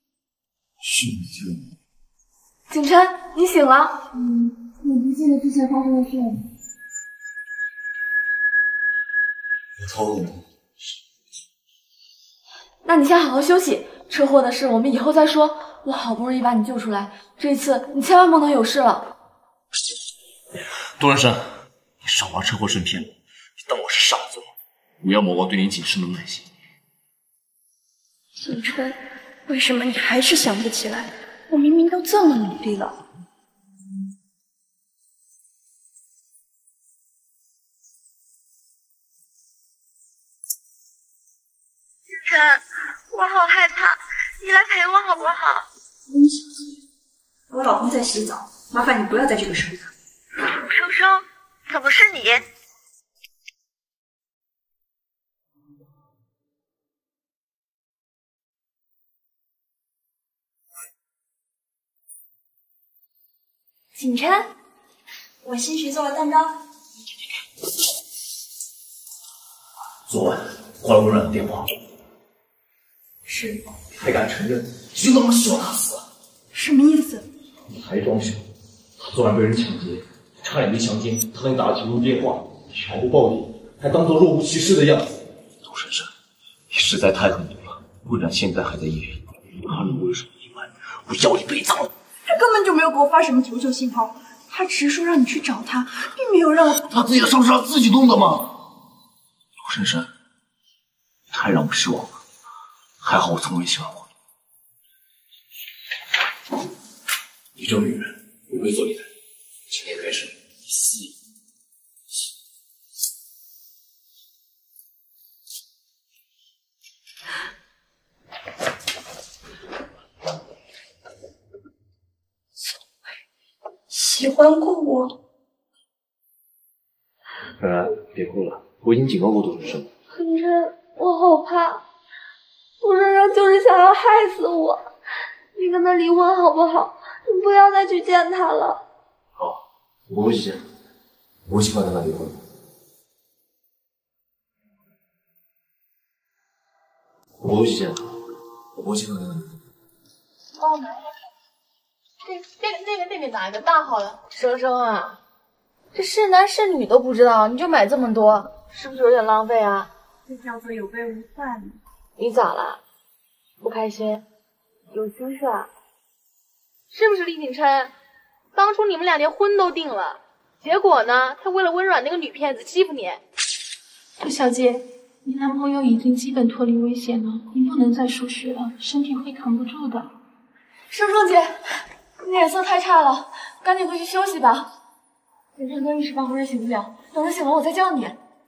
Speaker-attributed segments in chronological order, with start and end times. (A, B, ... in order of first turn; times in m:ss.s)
0:00.8-0:01.7 A
0:02.7-0:04.1 B
0:04.8-0:05.2 B
0:09.8-0:10.4 A
0:12.8-0:19.1 B
0:21.0-0:24.5 A
0:25.0-0:26.5 A
0:28.4-0:33.0 C
0:43.1-0:43.9 B
0:44.4-0:45.5 B
0:46.1-0:46.4 C
0:47.5-0:49.9 C
0:50.7-0:51.1 B
0:51.7-0:52.3 B
1:05.4-1:06.6 C
1:10.1-1:11.7 A
1:13.2-1:13.6 C
1:14.0-1:16.0 A
1:16.5-1:17.3 C
1:17.7-1:18.4 A
1:19.0-1:26.1 A
1:26.7-1:31.9 A
1:32.2-1:36.9 C
1:36.9-1:38.5 A
1:39.6-1:40.1 A
1:41.3-1:42.2 A
1:43.0-1:44.1 A
1:47.6-1:49.1 A
1:49.7-1:51.0 A
2:03.9-2:05.2 C
2:07.6-2:09.9 A
2:10.1-2:11.8 B
2:12.8-2:14.9 B
2:15.6-2:18.8 B
2:19.4-2:20.7 A
2:21.5-2:22.4 A
2:27.4-2:28.1 A
2:28.8-2:29.6 A
2:32.2-2:35.2 D
2:35.9-2:39.9 D
2:40.3-2:41.8 C
2:42.2-2:42.8 D
2:43.6-2:44.2 D
2:44.9-2:45.6 B
2:46.9-2:47.9 D
2:48.5-2:53.2 D
2:54.2-3:00.1 E
3:00.9-3:01.5 B
3:02.2-3:04.7 B
3:05.6-3:08.2 B